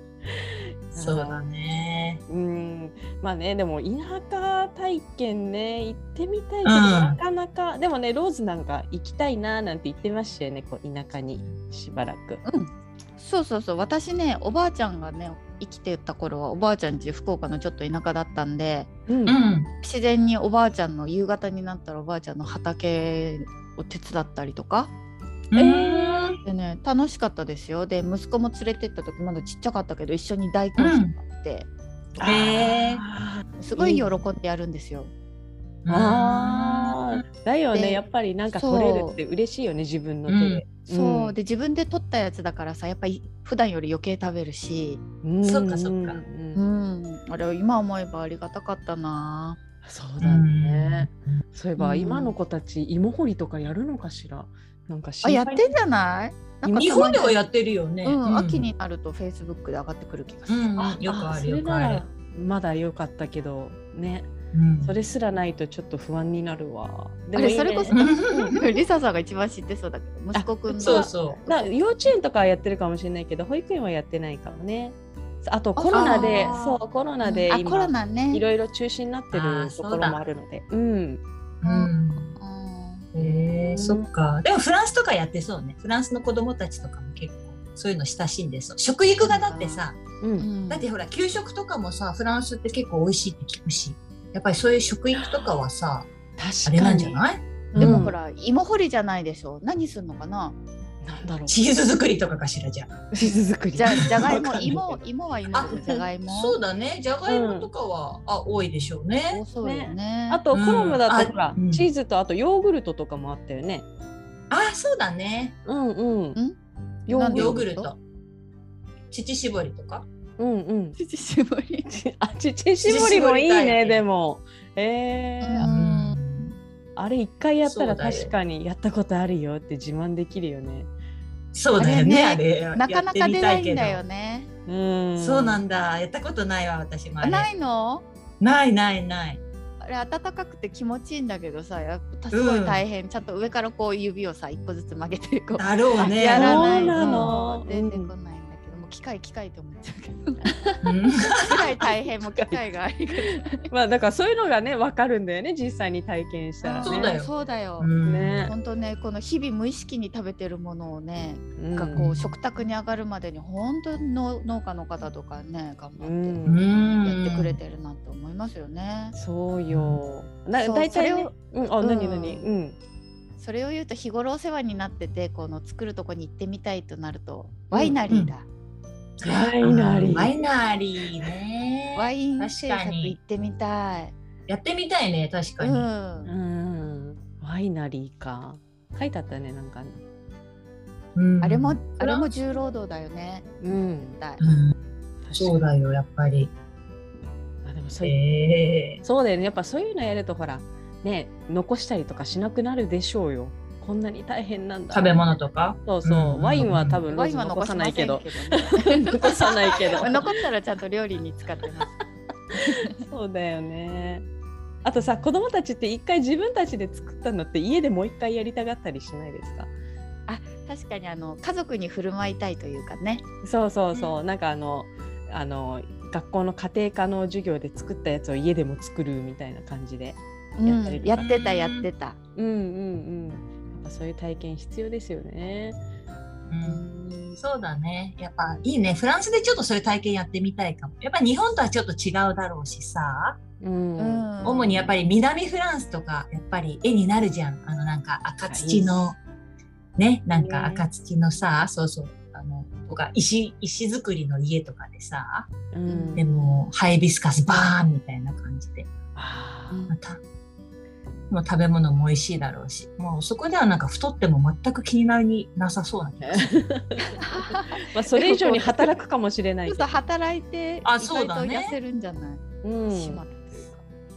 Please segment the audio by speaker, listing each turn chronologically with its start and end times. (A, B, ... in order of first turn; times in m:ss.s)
0:00.2-0:01.4 A
0:01.0-0:02.2 B
0:02.3-0:12.4 A
0:06.6-0:07.2 B
0:12.4-0:18.9 C
0:19.1-0:19.4 A
0:19.2-0:19.7 B
0:19.8-0:24.9 C
0:25.5-0:26.4 B
0:25.5-0:26.3 A
0:26.4-0:31.7 C
0:30.8-0:31.1 B
0:32.2-0:34.1 A
0:32.2-0:33.0 B
0:33.6-0:35.1 C
0:35.8-0:37.2 B
0:35.9-0:41.3 A
0:37.7-0:38.0 C
0:38.5-0:39.1 C
0:40.3-0:40.6 B
0:40.9-0:45.0 C
0:45.2-0:46.6 A
0:45.4-0:46.2 B
0:46.5-0:49.6 C
0:49.8-0:55.7 A
0:50.2-0:51.4 B
0:51.8-0:52.3 C
0:55.2-0:57.4 C
0:56.7-0:58.7 B
0:58.0-1:00.7 C
1:00.5-1:02.0 B
1:00.8-1:04.3 A
1:04.5-1:04.9 B
1:04.8-1:08.6 A
1:07.4-1:11.7 C
1:07.9-1:08.8 B
1:10.3-1:21.2 A
1:10.8-1:11.4 B
1:15.8-1:16.6 C
1:15.9-1:16.8 B
1:17.2-1:18.4 C
1:19.3-1:20.2 B
1:21.6-1:23.1 C
1:21.6-1:22.4 B
1:23.1-1:30.0 B
1:23.2-1:24.0 A
1:29.2-1:29.8 C
1:30.2-1:30.5 A
1:30.4-1:30.9 C
1:30.7-1:36.1 B
1:36.4-1:38.1 A
1:36.6-1:38.1 B
1:37.8-1:40.6 C
1:41.0-1:41.6 A
1:41.5-1:43.1 B
1:43.1-1:45.0 A
1:43.7-1:46.6 C
1:44.0-1:44.6 B
1:45.5-1:49.4 B
1:45.7-1:46.0 A
1:47.3-1:47.7 A
1:49.3-1:50.4 C
1:49.6-1:53.8 A
1:50.5-1:51.9 B
1:54.5-1:55.6 B
1:55.6-1:56.4 A
1:57.1-1:57.7 A
1:57.1-1:57.9 C
1:57.3-1:58.0 B
1:59.1-2:00.0 B
2:00.4-2:01.0 A
2:01.0-2:01.9 C
2:01.9-2:05.7 A
2:02.8-2:04.0 B
2:05.4-2:06.2 C
2:05.6-2:06.6 B
2:07.0-2:10.9 A
2:07.6-2:08.3 B
2:11.5-2:14.0 B
2:11.8-2:14.5 C
2:14.6-2:15.6 A
2:15.2-2:17.5 B
2:17.2-2:18.0 C
2:18.4-2:19.4 B
2:19.8-2:33.7 C
2:22.3-2:22.8 B
2:25.6-2:27.3 B
2:26.2-2:28.1 A
2:30.8-2:31.6 B
2:32.3-2:32.6 A
2:33.2-2:37.2 A
2:36.6-2:37.9 C
2:36.8-2:38.5 B
2:38.0-2:38.5 A
2:38.4-2:46.4 C
2:41.6-2:42.1 A
2:41.9-2:42.3 B
2:46.0-2:46.6 A
2:46.4-2:47.6 B
2:47.0-2:49.2 C
2:49.1-2:52.8 A
2:49.7-2:50.0 B
2:50.6-2:52.5 C
2:53.4-2:58.4 C
2:57.7-2:58.0 A
2:59.2-3:00.3 A
2:59.2-3:03.2 B
3:02.0-3:04.1 C
3:04.5-3:05.9 B
3:05.6-3:06.3 C
3:06.2-3:10.0 A
3:11.1-3:12.3 B
3:11.4-3:14.4 C
3:13.6-3:14.2 A
3:14.4-3:14.8 B
3:15.2-3:15.6 A
3:15.4-3:16.5 B
3:17.6-3:18.2 A
3:18.0-3:19.0 B
3:19.0-3:30.4 A
3:24.9-3:27.0 B
3:27.1-3:32.0 C
3:32.5-3:33.0 C
3:32.6-3:34.2 A
3:34.8-3:39.7 A
3:40.3-3:43.2 C
3:43.4-3:51.2 A
3:50.6-3:52.2 C
3:51.2-3:51.9 B
3:52.4-3:55.8 A
3:56.5-3:56.8 B
3:56.6-3:57.4 C
3:57.4-4:03.4 B
4:03.6-4:04.3 A
4:04.0-4:05.0 C
4:04.4-4:09.2 B
4:08.5-4:09.0 A
4:10.0-4:15.5 B
4:10.3-4:10.8 A
4:15.7-4:16.4 A
4:15.8-4:16.2 C
4:16.1-4:18.9 B
4:19.1-4:19.8 A
4:19.7-4:19.9 C
4:19.9-4:20.2 B
4:21.3-4:26.5 B
4:26.2-4:29.9 A
4:27.0-4:28.9 C
4:29.7-4:33.8 C
4:30.8-4:31.8 B
4:32.6-4:33.2 A